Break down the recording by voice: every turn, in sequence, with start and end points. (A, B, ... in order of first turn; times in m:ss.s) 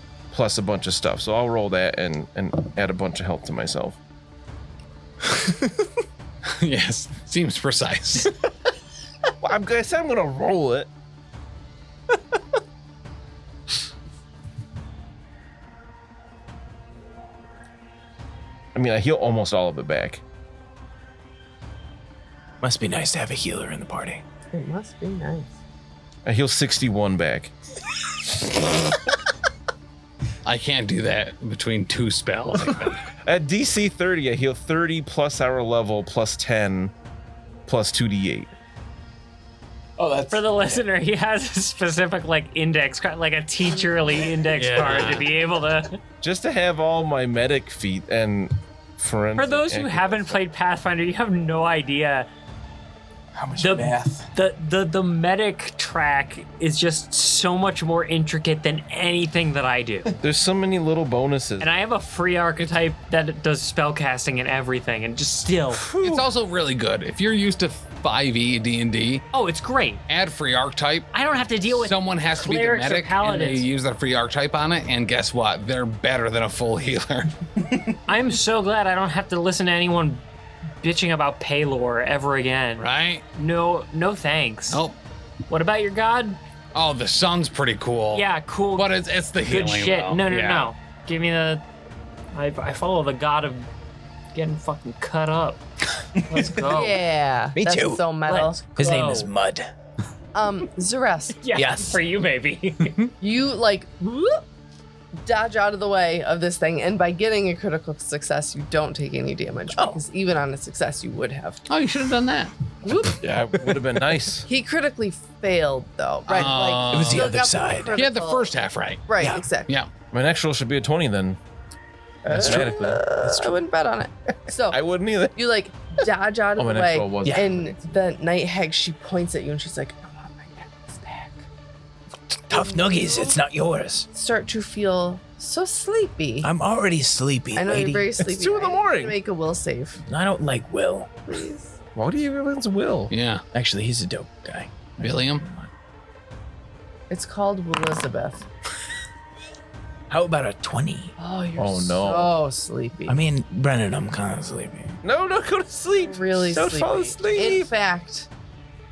0:00.3-0:04.0 A
0:06.4-0:08.3 B
0:09.4-0:10.9 A
0:18.7-0:20.2 A
0:22.6-0:24.2 C
0:24.5-0:25.5 D
0:26.2-0:27.5 A
0:30.4-0:33.0 B
0:33.2-0:36.9 A
0:37.6-0:38.5 A
0:40.0-0:40.8 B
0:40.3-0:46.0 E
0:44.6-0:45.3 B
0:46.2-0:50.4 A
0:49.4-0:52.3 E
0:53.3-0:54.3 C
0:53.6-1:00.1 E
1:00.2-1:01.7 A
1:01.6-1:05.8 E
1:05.9-1:06.2 A
1:06.0-1:09.3 B
1:09.3-1:10.0 E
1:10.1-1:11.1 B
1:11.1-1:13.6 E
1:11.6-1:17.4 B
1:18.1-1:20.2 E
1:20.8-1:24.8 E
1:22.8-1:23.2 B
1:24.7-1:25.0 B
1:25.5-1:26.4 E
1:26.7-1:30.7 B
1:28.1-1:28.9 E
1:29.4-1:31.6 E
1:32.3-1:33.7 E
1:34.3-1:35.6 E
1:36.1-1:37.0 E
1:36.6-1:38.6 D
1:37.6-1:39.7 C
1:38.3-1:39.3 E
1:40.3-1:41.4 D
1:41.4-1:43.1 E
1:41.5-1:42.0 C
1:43.2-1:44.4 D
1:45.2-1:51.6 D
1:49.7-1:50.0 C
1:51.7-1:52.5 B
1:52.8-1:53.2 D
1:53.2-1:54.4 A
1:54.4-1:58.5 D
1:56.3-1:57.4 B
1:56.4-1:58.0 C
1:57.9-1:59.1 B
1:59.1-1:59.7 D
1:59.2-1:59.4 C
2:00.1-2:01.4 A
2:02.2-2:03.6 A
2:02.3-2:02.7 C
2:02.3-2:04.8 D
2:04.7-2:05.3 A
2:05.3-2:11.4 D
2:06.6-2:07.8 A
2:07.2-2:07.5 C
2:12.5-2:14.1 C
2:12.5-2:13.4 D
2:14.1-2:16.5 D
2:16.4-2:18.1 C
2:17.5-2:20.0 D
2:18.2-2:19.2 A
2:20.0-2:21.1 C
2:21.3-2:21.7 D
2:22.0-2:23.1 A
2:23.1-2:23.4 B
2:23.5-2:25.4 C
2:25.0-2:25.4 B
2:27.1-2:28.4 D
2:30.1-2:31.2 C
2:31.2-2:33.2 D
2:31.6-2:32.4 A
2:33.1-2:35.0 C
2:35.0-2:37.7 A
2:36.0-2:38.3 D